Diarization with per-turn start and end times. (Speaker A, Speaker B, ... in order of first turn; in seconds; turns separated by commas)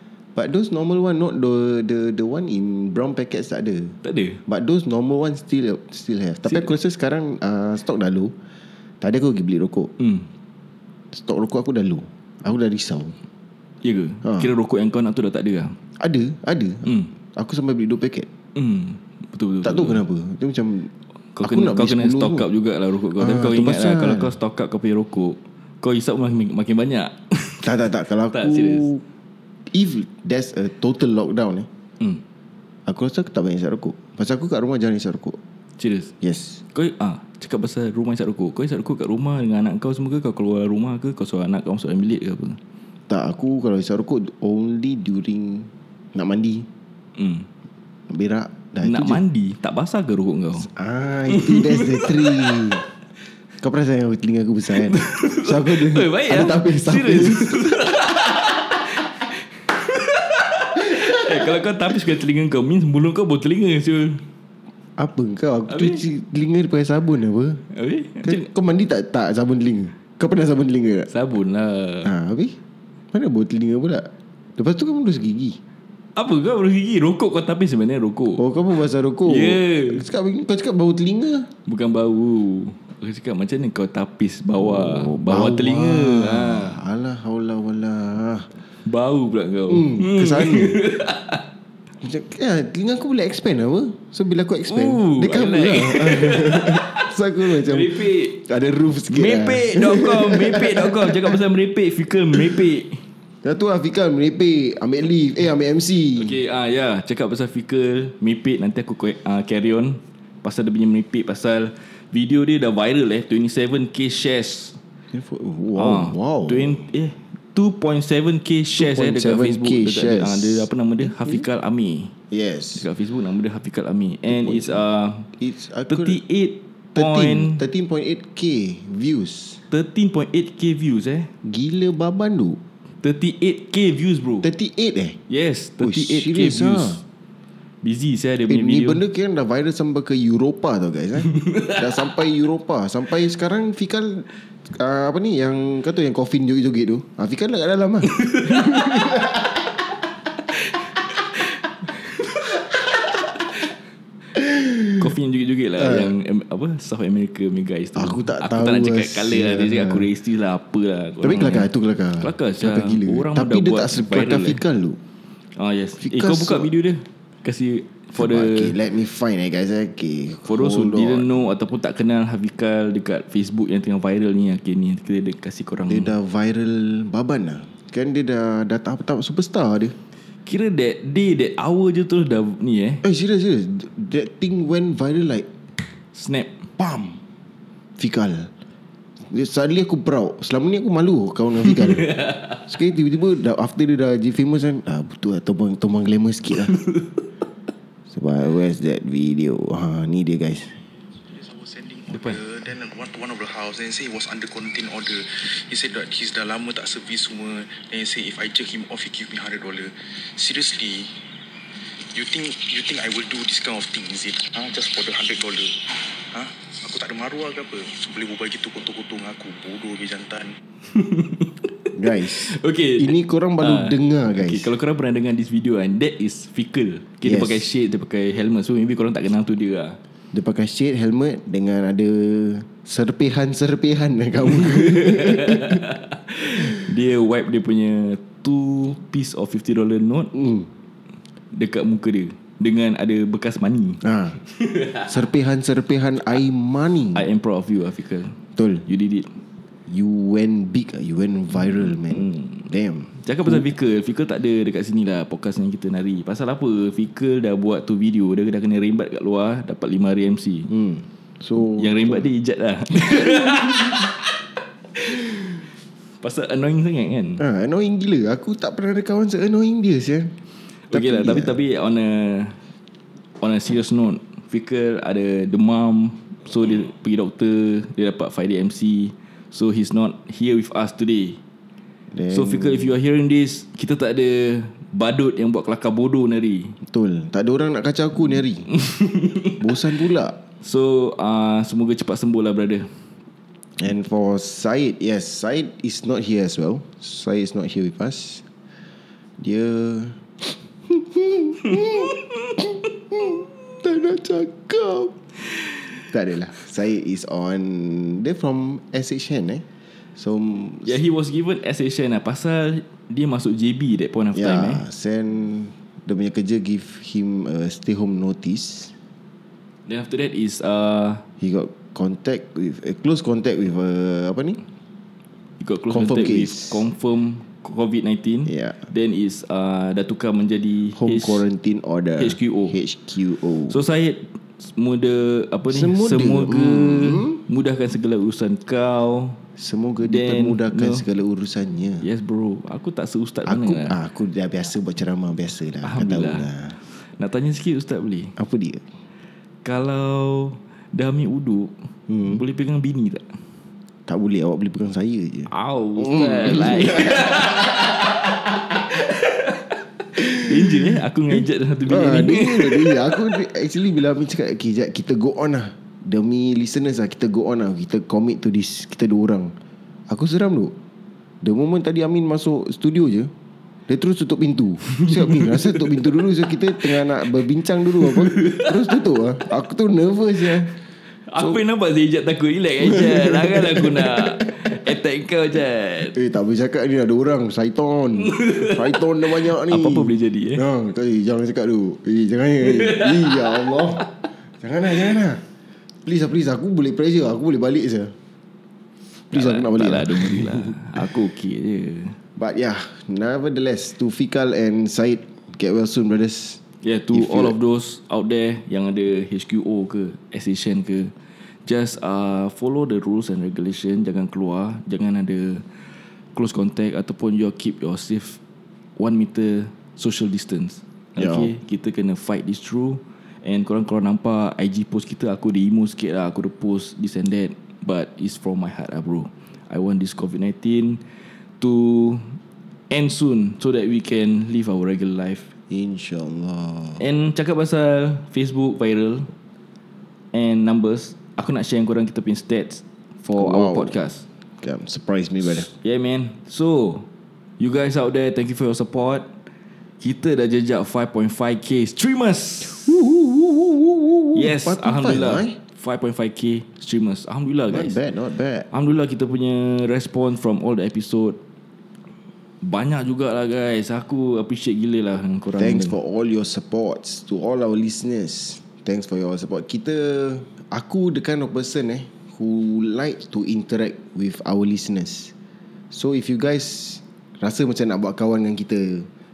Speaker A: 0.3-3.9, Speaker B: 4.0-4.4, Speaker A: 4.5-8.3, Speaker A: 9.0-9.9, Speaker B: 10.0-10.3, Speaker A: 11.1-13.1, Speaker B: 13.8-15.8, Speaker A: 16.0-18.3, Speaker B: 16.8-17.1, Speaker B: 18.5-20.0, Speaker A: 19.6-20.9, Speaker B: 21.3-27.7, Speaker A: 21.4-22.5, Speaker A: 23.2-24.3, Speaker A: 27.6-29.0, Speaker B: 28.3-28.9, Speaker A: 29.7-31.7, Speaker A: 32.9-35.4, Speaker B: 35.8-36.1, Speaker A: 36.2-36.6, Speaker B: 36.7-42.6, Speaker A: 43.1-46.6, Speaker B: 47.1-47.5, Speaker A: 48.1-49.2, Speaker B: 48.8-50.7, Speaker A: 50.6-52.8, Speaker B: 51.3-52.6, Speaker A: 53.6-57.6, Speaker B: 54.7-64.2, Speaker A: 60.9-61.5, Speaker A: 65.0-67.6, Speaker B: 65.7-66.0, Speaker B: 67.7-68.5, Speaker A: 68.2-71.1, Speaker B: 71.1-72.1, Speaker A: 72.0-72.6, Speaker A: 73.1-75.6, Speaker B: 76.2-78.4, Speaker A: 78.4-81.5, Speaker B: 79.2-80.0, Speaker B: 81.7-86.8, Speaker A: 84.6-88.5, Speaker B: 88.8-91.4, Speaker A: 89.7-90.8, Speaker A: 92.0-101.4, Speaker B: 94.7-98.4, Speaker B: 99.1-103.0, Speaker A: 103.4-106.3, Speaker B: 106.2-114.8, Speaker A: 115.1-116.9, Speaker B: 115.8-122.1, Speaker A: 118.8-121.4, Speaker A: 122.3-122.8, Speaker B: 122.8-125.3, Speaker A: 124.3-124.8, Speaker A: 125.4-126.2, Speaker B: 125.9-127.6, Speaker A: 126.9-129.6, Speaker B: 129.7-131.3, Speaker A: 131.4-132.6, Speaker B: 133.0-134.5, Speaker A: 134.4-135.2, Speaker B: 135.3-137.0, Speaker A: 135.8-137.0, Speaker B: 137.8-139.0, Speaker A: 138.5-149.6, Speaker B: 141.3-141.8, Speaker B: 148.1-149.1, Speaker B: 151.3-152.6, Speaker A: 154.3-155.0, Speaker B: 154.9-161.7, Speaker A: 155.8-156.1, Speaker A: 157.9-160.1, Speaker A: 161.2-165.0, Speaker B: 162.2-164.6, Speaker B: 165.6-168.8, Speaker A: 166.0-166.7, Speaker A: 168.2-171.5, Speaker B: 170.4-176.1, Speaker A: 175.9-179.9, Speaker B: 180.4-183.0, Speaker A: 183.0-185.5, Speaker B: 186.1-186.5, Speaker A: 186.8-187.2, Speaker A: 188.0-188.5, Speaker A: 189.3-196.8, Speaker B: 196.8-197.0, Speaker A: 198.1-200.8, Speaker C: 201.3-211.1, Speaker B: 202.1-202.4, Speaker C: 212.1-220.5, Speaker B: 220.9-230.0, Speaker A: 221.9-224.7, Speaker A: 227.2-227.6, Speaker A: 230.3-235.8, Speaker B: 234.5-240.3, Speaker A: 240.3-240.7, Speaker B: 241.5-244.0, Speaker A: 244.0-244.4, Speaker B: 244.5-245.1, Speaker A: 245.1-247.2, Speaker B: 247.1-249.3, Speaker A: 248.6-248.8, Speaker A: 249.9-253.6, Speaker B: 251.6-252.7, Speaker B: 253.2-260.7, Speaker A: 260.7-262.3, Speaker B: 261.6-264.2, Speaker A: 263.2-263.7, Speaker B: 266.2-267.4, Speaker A: 267.4-270.3, Speaker B: 270.9-272.6, Speaker A: 270.9-271.6, Speaker B: 273.4-281.4, Speaker A: 282.1-282.9, Speaker B: 282.3-286.8, Speaker A: 286.8-288.7, Speaker B: 288.7-289.6, Speaker A: 289.6-290.4, Speaker B: 290.6-292.9, Speaker A: 293.8-298.4, Speaker A: 299.4-305.2, Speaker A: 306.1-309.6, Speaker A: 310.1-311.0, Speaker B: 310.8-314.8, Speaker A: 314.3-318.9, Speaker B: 319.9-321.2, Speaker A: 321.4-324.6, Speaker B: 325.6-331.4, Speaker A: 325.9-326.8, Speaker A: 328.5-328.8, Speaker A: 330.9-333.8, Speaker B: 332.2-332.8, Speaker B: 333.7-339.4, Speaker A: 335.7-337.4, Speaker A: 339.6-342.1, Speaker B: 340.0-341.0, Speaker B: 342.0-344.0, Speaker A: 343.4-346.8, Speaker B: 345.8-348.3, Speaker A: 348.4-348.8, Speaker B: 349.6-353.4, Speaker A: 352.1-352.4, Speaker A: 354.1-358.4, Speaker B: 355.5-358.3, Speaker B: 358.9-363.2, Speaker A: 360.2-369.5, Speaker A: 370.1-370.7, Speaker A: 371.4-373.3, Speaker A: 373.9-380.7, Speaker B: 375.0-375.8, Speaker B: 378.0-378.7, Speaker B: 381.3-386.1, Speaker A: 382.8-384.4, Speaker A: 386.1-395.4, Speaker B: 388.2-390.6, Speaker B: 392.6-393.7, Speaker A: 396.0-398.1, Speaker A: 399.3-401.1, Speaker B: 399.3-402.2, Speaker A: 402.4-406.6, Speaker B: 406.8-411.1, Speaker A: 407.1-407.5, Speaker B: 411.6-415.6, Speaker B: 416.3-418.4, Speaker B: 419.0-431.0, Speaker A: 421.1-421.5, Speaker B: 431.6-432.4, Speaker B: 432.9-435.5, Speaker A: 435.7-437.0, Speaker B: 437.0-439.3, Speaker B: 440.3-444.2, Speaker A: 443.4-443.9, Speaker A: 444.6-445.7, Speaker B: 445.4-447.1, Speaker B: 447.6-449.3, Speaker B: 450.0-453.0, Speaker A: 452.7-455.6, Speaker B: 454.3-458.0, Speaker A: 457.7-458.7, Speaker B: 458.7-461.4, Speaker B: 462.6-466.0, Speaker A: 465.6-475.3, Speaker A: 475.9-479.1